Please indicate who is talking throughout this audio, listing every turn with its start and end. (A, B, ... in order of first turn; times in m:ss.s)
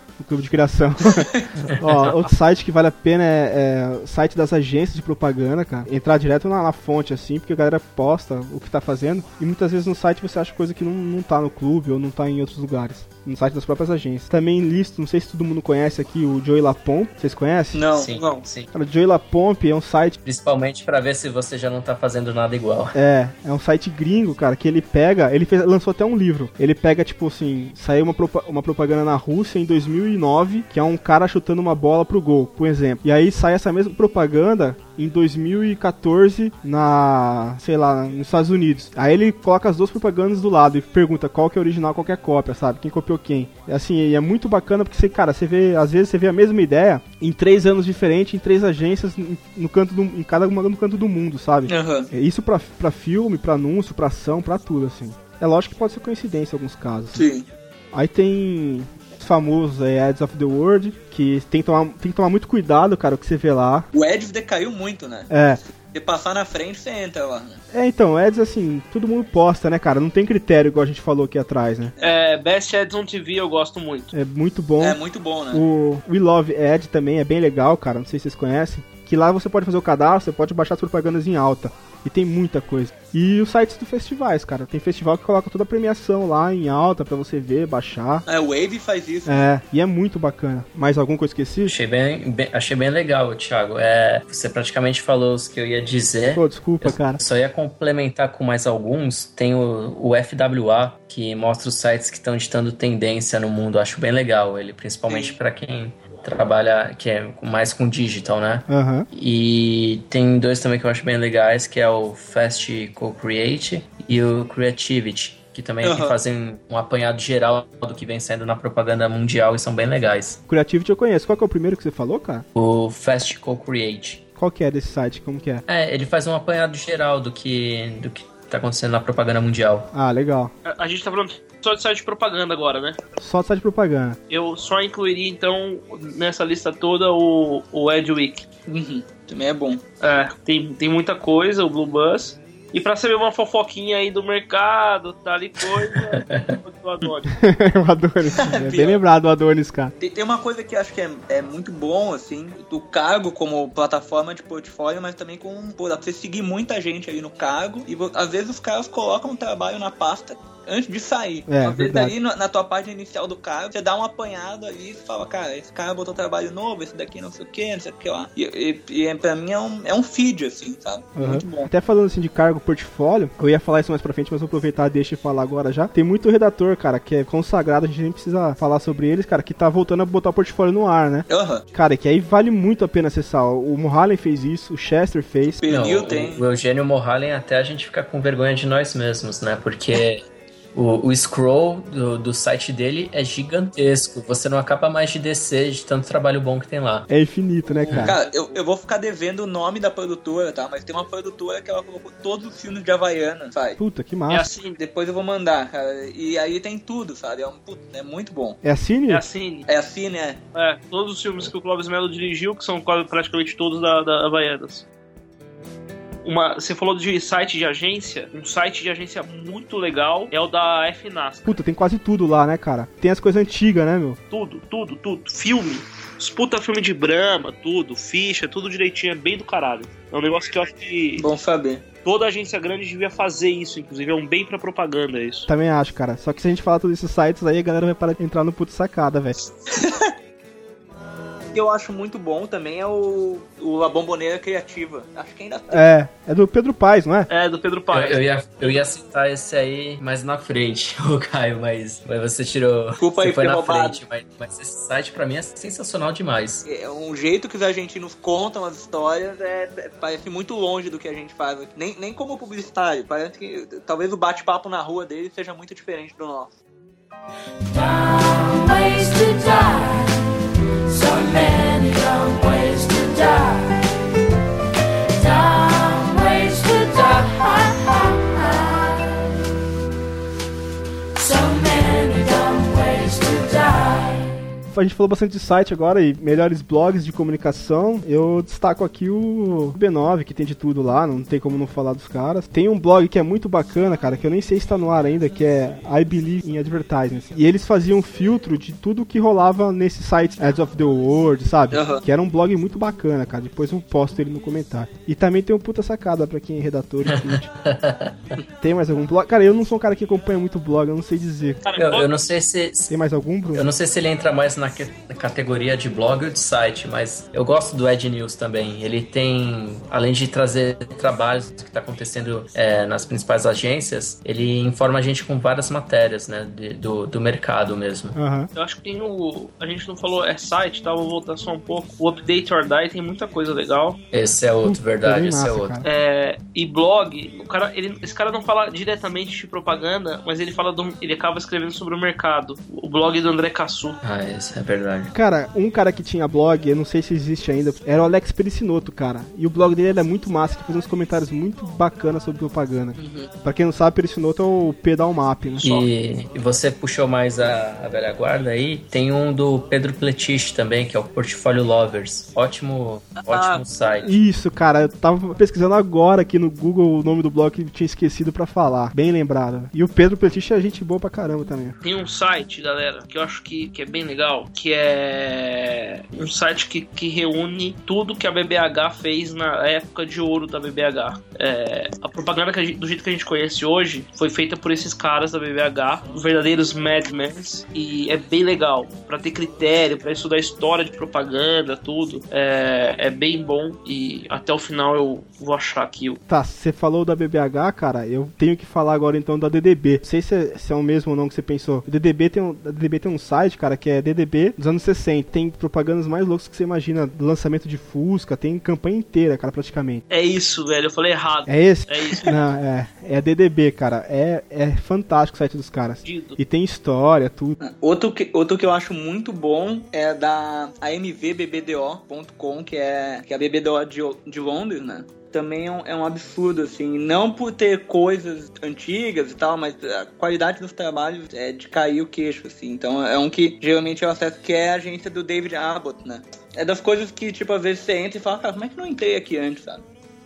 0:00.2-0:17.8 A
0:17.7-0:18.1 B
0:18.0-0:18.7 C
0:18.1-0:18.4 D
0:18.7-0:20.2 A
0:20.2-0:22.9 C
0:23.0-0:57.2 A
0:51.7-0:52.1 B
0:57.1-0:57.5 B
0:57.9-1:03.9 A
1:03.9-1:05.3 B
1:05.3-1:05.6 A
1:05.9-1:07.6 B
1:07.7-1:11.9 A
1:12.0-1:14.1 D
1:14.1-1:15.0 A
1:14.8-1:15.6 B
1:15.5-1:28.2 A
1:28.3-1:29.4 B
1:29.3-1:31.8 A
1:31.7-2:00.4 C
1:36.3-1:37.2 A
1:45.1-1:45.4 B
1:48.7-1:49.1 A
1:55.8-1:56.1 B
2:00.5-2:02.4 A
2:02.6-2:04.2 C
2:04.4-2:05.6 A
2:05.7-2:09.9 C
2:09.9-2:10.5 A
2:10.6-2:13.0 D
2:13.2-2:14.2 A
2:14.3-2:18.5 D
2:18.7-2:19.8 B
2:20.0-2:27.3 D
2:27.3-2:29.9 A
2:28.4-2:29.0 B
2:30.0-2:51.7 B
2:41.5-2:42.1 A
2:51.2-3:05.6 A
3:01.3-3:01.6 B
3:05.6-3:06.4 B
3:05.6-3:17.1 C
3:17.1-3:18.2 A
3:17.8-3:18.6 D
3:18.0-3:23.8 B
3:23.8-3:24.5 A
3:24.3-3:24.8 D
3:24.8-3:28.6 B
3:28.6-3:29.2 A
3:29.1-3:29.7 D
3:29.7-3:30.4 B
3:30.5-3:34.8 D
3:36.2-3:41.6 D
3:41.5-3:44.2 A
3:44.3-3:51.3 D
3:51.2-3:51.8 B
3:52.0-3:55.5 D
3:55.5-3:59.4 A
3:59.7-4:00.1 B
4:01.5-4:05.9 B
4:05.7-4:07.3 A
4:07.3-4:08.2 D
4:07.9-4:16.6 C
4:13.0-4:14.0 B
4:16.7-4:26.5 B
4:27.7-4:30.3 E
4:30.9-4:33.8 E
4:35.2-4:39.2 E
4:41.2-4:44.3 E
4:44.7-5:07.5 A
5:01.7-5:02.0 B
5:07.1-5:08.2 C
5:08.6-5:11.6 A
5:11.6-5:12.1 D
5:11.8-5:12.9 C
5:12.9-5:13.7 A
5:13.5-5:28.2 C
5:28.2-5:28.5 A
5:28.6-5:34.0 D
5:34.1-5:35.8 C
5:34.6-5:35.8 A
5:35.8-5:44.0 D
5:44.0-5:45.1 C
5:45.1-5:55.7 A
5:53.0-5:53.3 B
5:55.6-6:04.1 C
6:03.2-6:03.6 B
6:04.0-6:11.8 A
6:11.8-6:36.2 D
6:36.3-6:50.0 A
6:50.1-6:52.3 D
6:51.5-6:57.6 A
6:56.0-6:56.4 D
6:57.6-7:19.8 B